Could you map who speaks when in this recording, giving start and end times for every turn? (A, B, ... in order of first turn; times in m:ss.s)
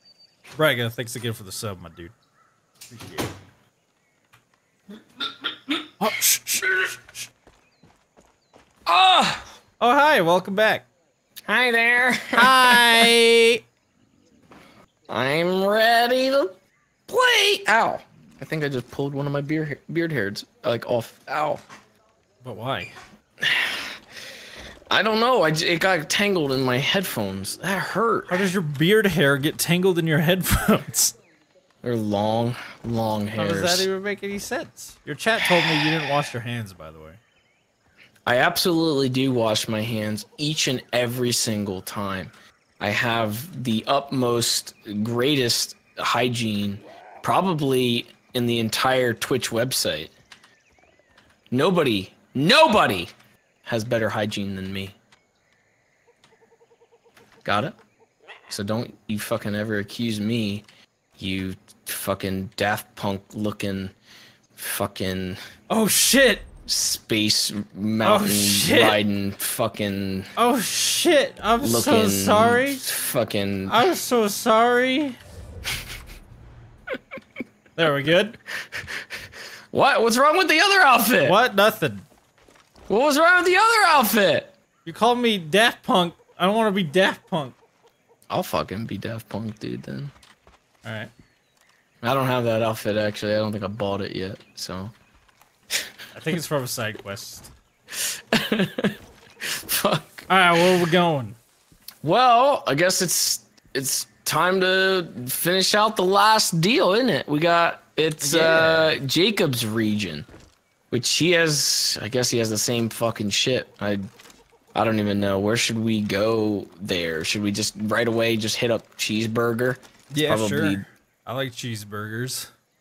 0:00.6-0:02.1 A
0:02.9-0:03.3 A
0:06.0-0:06.9 A
0:08.8-0:09.5 B
0:09.8-0:10.8 A
0:11.5-0:13.1 B
0:12.3-0:13.6 A
0:15.1-0:16.6 B
0:17.1-0:21.6 B
0:22.4-0:22.9 A
0:23.4-0:24.0 B
0:24.9-0:28.4 B
0:28.3-0:31.1 A
0:31.8-0:33.9 B
0:33.4-0:37.2 A
0:35.4-0:36.0 B
0:38.2-0:50.1 B
0:51.5-0:53.1 B
0:53.6-0:55.0 B
0:57.4-0:57.8 B
0:58.5-1:00.6 B
1:01.2-1:03.9 B
1:04.6-1:05.4 B
1:05.7-1:06.4 A
1:06.6-1:10.3 B
1:08.0-1:09.0 A
1:10.4-1:12.8 A
1:11.6-1:13.8 B
1:13.7-1:15.2 A
1:17.8-1:18.4 A
1:18.7-1:19.0 B
1:19.7-1:21.4 B
1:21.2-1:22.0 A
1:22.9-1:24.5 B
1:24.8-1:27.5 A
1:28.3-1:30.1 B
1:30.8-1:31.1 A
1:32.0-1:34.9 B
1:36.1-1:37.5 A
1:37.9-1:40.3 B
1:40.3-1:41.4 A
1:42.0-1:50.3 B
1:48.2-1:49.0 A
1:50.9-1:54.1 B
1:54.7-2:00.8 B
2:00.1-2:02.5 A